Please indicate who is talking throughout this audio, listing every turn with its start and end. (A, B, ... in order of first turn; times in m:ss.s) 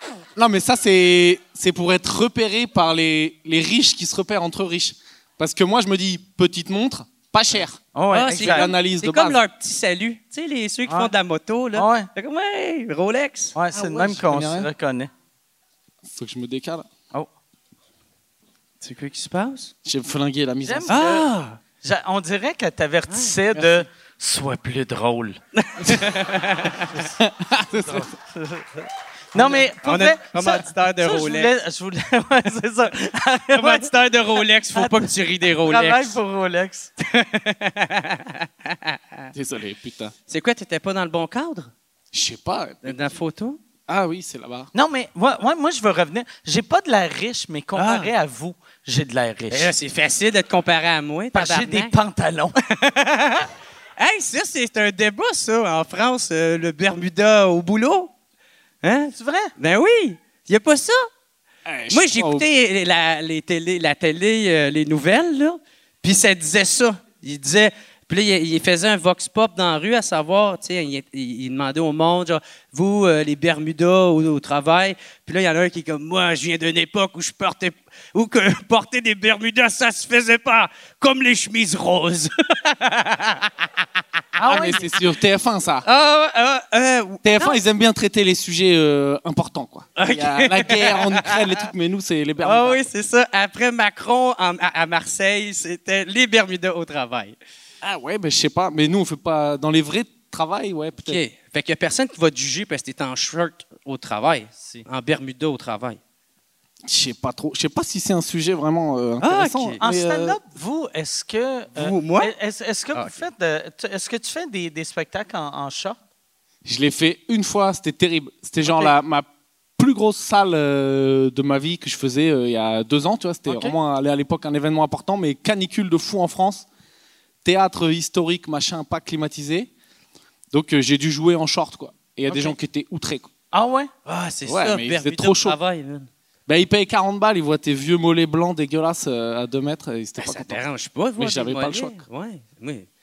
0:00.4-0:07.8 A
0:08.0-0:08.7 B
0:08.1-0:13.6 C
0:08.3-0:09.4 A
0:11.8-0:12.1 B
0:13.6-0:15.1 B
0:13.7-0:14.7 A
0:16.0-0:16.9 A
0:18.8-0:19.7 C
0:19.8-0:21.0 A
0:20.6-0:21.3 B
0:20.9-0:21.6 C
0:21.8-0:25.4 B
0:23.1-0:23.7 C
0:25.6-0:27.0 C
0:27.0-0:28.1 A
0:27.8-0:33.9 B
0:29.4-0:31.5 C
0:33.6-0:36.2 C
0:34.8-0:35.1 B
0:35.6-0:36.9 B
0:37.0-0:39.3 C
0:39.3-0:40.1 A
0:40.3-0:41.7 C
0:42.1-0:43.1 A
0:42.8-0:43.6 C
0:43.9-0:44.7 A
0:44.7-0:49.7 B
0:47.8-0:48.1 C
0:49.5-0:51.9 C
0:51.3-0:52.6 B
0:52.7-0:58.1 C
0:58.8-1:01.1 C
0:59.2-0:59.5 B
1:01.7-1:02.5 A
1:01.9-1:23.5 C
1:24.4-1:24.8 B
1:24.4-1:25.9 A
1:25.8-1:27.6 C
1:27.2-1:32.8 A
1:30.0-1:31.5 C
1:32.4-1:37.4 C
1:37.8-1:41.2 A
1:41.0-1:46.0 C
1:44.6-1:44.9 B
1:46.8-1:50.4 A
1:49.2-1:49.8 C
1:49.8-1:56.0 B
1:51.8-1:52.3 C
1:56.6-1:59.3 A
1:58.6-1:58.9 B
1:59.8-2:06.7 A
2:03.5-2:03.8 B
2:07.4-2:09.7 A
2:10.5-2:13.3 A
2:13.5-2:13.9 B
2:14.0-2:16.1 C
2:14.5-2:15.6 A
2:16.5-2:20.6 A
2:20.2-2:22.9 C
2:21.2-2:22.0 A